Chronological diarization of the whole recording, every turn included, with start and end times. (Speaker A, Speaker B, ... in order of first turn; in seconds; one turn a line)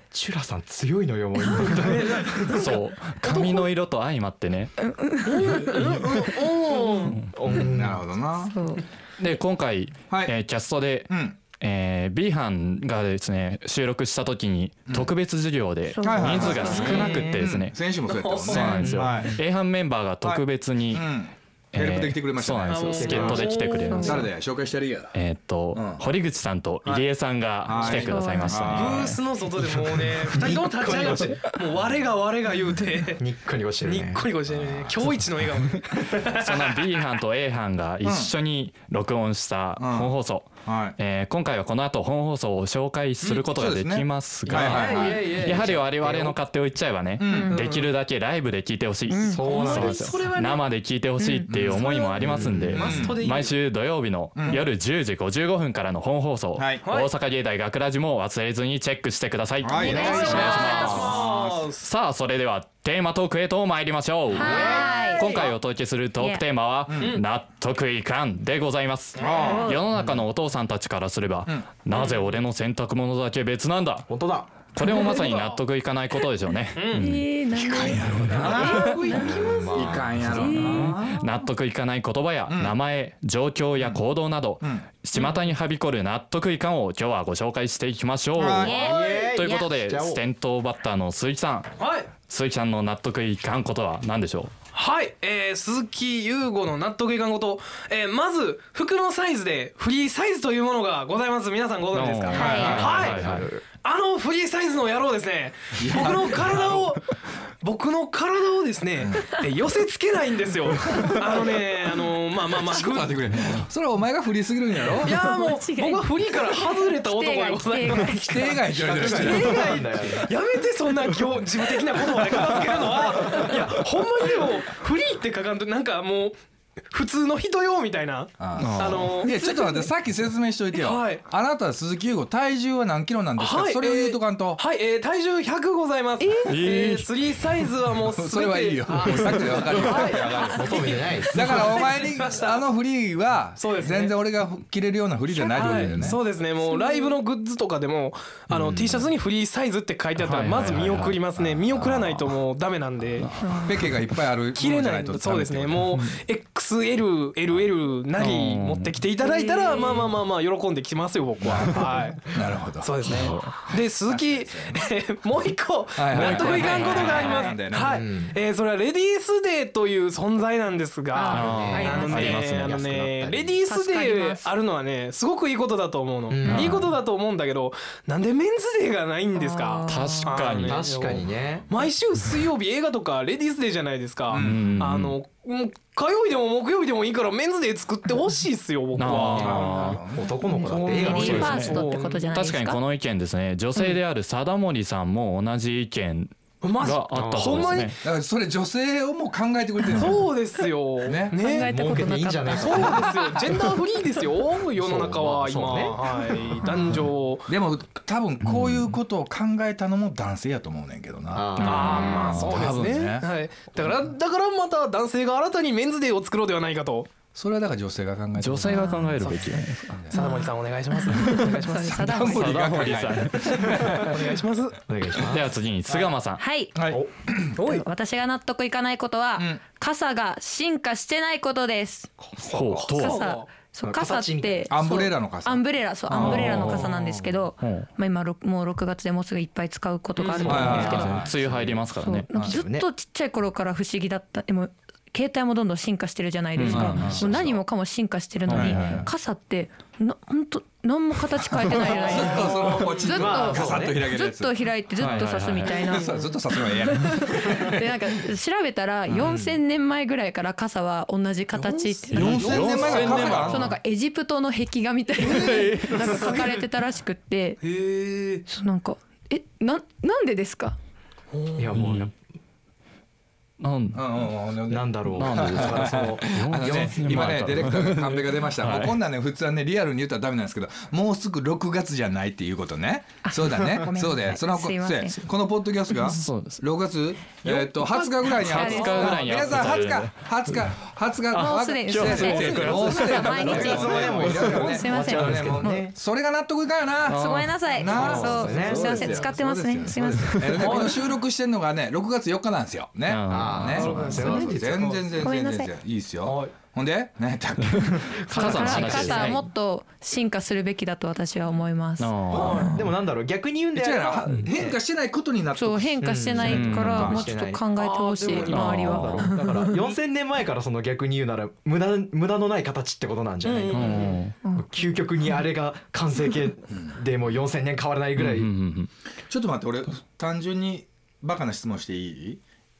Speaker A: 0.1-2.6
Speaker B: 1.5-2.7
Speaker C: 2.5-4.7
Speaker B: 3.2-3.7
Speaker D: 4.9-5.8
Speaker B: 5.2-7.3
Speaker A: 7.2-8.2
Speaker E: 7.5-8.6
Speaker D: 8.5-8.8
Speaker C: 9.2-17.8
Speaker E: 11.1-11.4
Speaker D: 15.9-17.0
Speaker E: 16.0-19.4
Speaker A: 16.2-17.6
Speaker B: 18.1-18.9
Speaker C: 18.5-21.1
Speaker A: 18.8-19.2
Speaker E: 20.2-23.5
Speaker C: 21.7-24.3
Speaker B: 22.7-24.1
Speaker A: 23.0-23.6
Speaker D: 23.9-24.2
Speaker E: 24.0-25.1
Speaker C: 25.1-29.2
Speaker E: 25.7-26.0
Speaker E: 27.6-29.2
Speaker D: 27.9-28.7
Speaker B: 28.7-33.2
Speaker A: 30.2-31.5
Speaker A: 33.1-34.2
Speaker B: 33.8-37.0
Speaker C: 36.3-61.2
Speaker E: 38.0-38.3
Speaker E: 39.8-40.1
Speaker E: 40.6-41.0
Speaker B: 43.2-43.5
Speaker E: 43.5-45.7
Speaker B: 44.5-46.3
Speaker E: 47.2-47.7
Speaker D: 47.3-47.6
Speaker B: 47.4-47.9
Speaker D: 49.1-49.4
Speaker A: 49.3-50.2
Speaker B: 49.4-50.6
Speaker D: 51.2-51.5
Speaker E: 51.5-53.3
Speaker B: 51.8-53.5
Speaker E: 54.4-54.6
Speaker E: 56.6-56.8
Speaker B: 56.8-57.1
Speaker E: 59.6-61.7
Speaker A: 59.8-60.8
Speaker B: 59.8-61.9
Speaker D: 59.8-61.1
Speaker C: 61.8-74.1
Speaker D: 64.4-65.4
Speaker A: 64.4-65.2
Speaker B: 64.5-65.5
Speaker E: 66.9-67.2
Speaker B: 69.2-69.6
Speaker E: 69.2-70.1
Speaker D: 69.4-69.8
Speaker A: 74.1-74.5
Speaker C: 74.7-77.2
Speaker B: 74.8-75.6
Speaker B: 76.8-77.1
Speaker D: 76.9-79.3
Speaker E: 77.5-81.2
Speaker C: 78.0-78.9
Speaker B: 78.5-80.0
Speaker A: 79.1-81.0
Speaker C: 80.2-94.5
Speaker D: 80.3-80.9
Speaker E: 84.6-84.8
Speaker E: 88.4-88.8
Speaker D: 88.6-89.7
Speaker A: 88.7-90.2
Speaker B: 91.8-92.1
Speaker B: 94.7-107.0
Speaker C: 101.9-103.5
Speaker D: 102.3-102.7
Speaker E: 102.3-103.1
Speaker A: 102.5-103.6
Speaker E: 105.8-106.9
Speaker B: 107.6-113.2
Speaker E: 109.0-109.4
Speaker E: 110.9-111.2
Speaker E: 112.5-115.2
Speaker B: 115.0-118.2
Speaker D: 115.1-118.6
Speaker E: 118.1-119.8
Speaker A: 118.7-120.3
Speaker B: 118.8-129.9
Speaker E: 122.3-122.8
Speaker A: 123.2-123.8
Speaker E: 128.4-134.6
Speaker C: 128.6-129.2
Speaker B: 130.7-131.2
Speaker B: 133.4-142.7
Speaker C: 136.4-137.1
Speaker E: 138.0-146.2
Speaker A: 139.6-141.8
Speaker B: 143.6-144.2
Speaker B: 145.4-153.3
Speaker D: 146.6-147.1
Speaker C: 148.5-149.1
Speaker C: 150.2-152.3
Speaker E: 151.4-151.9
Speaker C: 153.2-153.9
Speaker D: 153.4-153.7
Speaker E: 153.6-156.1
Speaker B: 154.6-189.9
Speaker C: 158.2-159.0
Speaker D: 159.2-160.0
Speaker E: 161.4-164.9
Speaker C: 163.1-163.5
Speaker E: 165.9-168.0
Speaker D: 166.5-167.5
Speaker C: 166.6-167.1
Speaker A: 167.7-168.4
Speaker D: 171.1-172.4
Speaker C: 171.3-172.8
Speaker A: 171.3-173.6
Speaker D: 173.7-174.5
Speaker A: 176.3-176.8
Speaker C: 176.4-176.9
Speaker D: 179.3-180.4
Speaker C: 179.9-180.8
Speaker A: 180.7-181.7
Speaker E: 184.3-184.7
Speaker C: 184.3-185.2
Speaker C: 188.9-190.0
Speaker E: 189.0-190.3
Speaker A: 190.1-191.7
Speaker B: 190.6-192.4
Speaker D: 190.7-192.8
Speaker C: 191.0-191.8
Speaker C: 192.3-197.9
Speaker B: 196.6-198.0
Speaker A: 197.1-197.9
Speaker E: 198.0-200.3
Speaker B: 199.8-201.7
Speaker E: 201.0-201.4
Speaker D: 201.3-203.0
Speaker A: 201.7-203.3
Speaker B: 202.6-207.5
Speaker E: 202.8-203.7
Speaker A: 204.8-206.1
Speaker E: 207.5-213.9
Speaker A: 211.3-212.4
Speaker B: 211.6-217.1
Speaker D: 211.7-212.3
Speaker C: 212.2-212.6
Speaker E: 217.3-220.2
Speaker C: 218.4-220.0
Speaker D: 218.7-219.1
Speaker B: 219.2-219.6
Speaker B: 220.1-222.3
Speaker D: 220.1-222.5
Speaker E: 221.8-224.2
Speaker C: 222.2-224.0
Speaker B: 223.6-224.8
Speaker A: 224.9-225.5
Speaker C: 225.3-226.4
Speaker D: 226.4-226.7
Speaker E: 226.7-227.6
Speaker A: 226.8-227.1
Speaker B: 227.6-227.8
Speaker D: 227.6-232.1
Speaker A: 232.2-232.9
Speaker C: 232.5-233.2
Speaker D: 232.9-241.2
Speaker B: 232.9-233.5
Speaker A: 233.8-234.7
Speaker E: 234.7-235.6
Speaker C: 236.1-236.9
Speaker A: 236.2-237.5
Speaker C: 237.6-237.9
Speaker B: 240.2-241.0
Speaker A: 240.4-241.3
Speaker E: 240.4-242.6
Speaker C: 240.5-242.3
Speaker D: 242.0-267.6
Speaker A: 242.3-242.9
Speaker C: 246.6-247.2
Speaker E: 246.7-247.6
Speaker C: 248.5-249.1
Speaker E: 248.5-249.1
Speaker B: 251.8-253.4
Speaker E: 251.9-257.9
Speaker A: 253.0-254.0
Speaker C: 255.0-255.8
Speaker A: 259.1-259.6
Speaker B: 261.6-263.7
Speaker E: 262.1-263.8
Speaker C: 262.1-263.6
Speaker B: 265.2-266.6
Speaker B: 267.6-268.4
Speaker D: 268.5-270.8
Speaker B: 271.3-271.7
Speaker A: 271.6-272.1
Speaker C: 271.7-272.1
Speaker C: 273.6-274.2
Speaker E: 273.9-308.2
Speaker A: 274.7-277.6
Speaker C: 275.1-279.0
Speaker D: 283.2-285.2
Speaker C: 286.0-286.6
Speaker D: 287.5-289.4
Speaker C: 288.3-290.2
Speaker C: 291.3-294.2
Speaker D: 291.3-295.8
Speaker A: 293.2-295.9
Speaker D: 297.1-300.9
Speaker C: 297.1-297.5
Speaker A: 297.8-299.1
Speaker B: 298.7-299.2
Speaker B: 300.5-301.0
Speaker C: 303.1-304.1
Speaker A: 303.3-305.3
Speaker B: 303.8-304.4
Speaker D: 305.2-305.7
Speaker B: 306.2-306.6
Speaker A: 308.1-309.4
Speaker C: 308.3-309.4
Speaker D: 308.3-312.1
Speaker C: 312.0-312.8
Speaker A: 312.3-314.8
Speaker B: 312.3-312.8
Speaker E: 313.7-317.3
Speaker D: 315.5-319.7
Speaker A: 316.0-317.6
Speaker C: 316.4-317.2
Speaker B: 317.7-319.0
Speaker C: 318.4-319.3
Speaker A: 318.8-328.5
Speaker B: 323.4-324.2
Speaker C: 323.7-324.3
Speaker C: 328.2-328.9
Speaker E: 329.3-332.4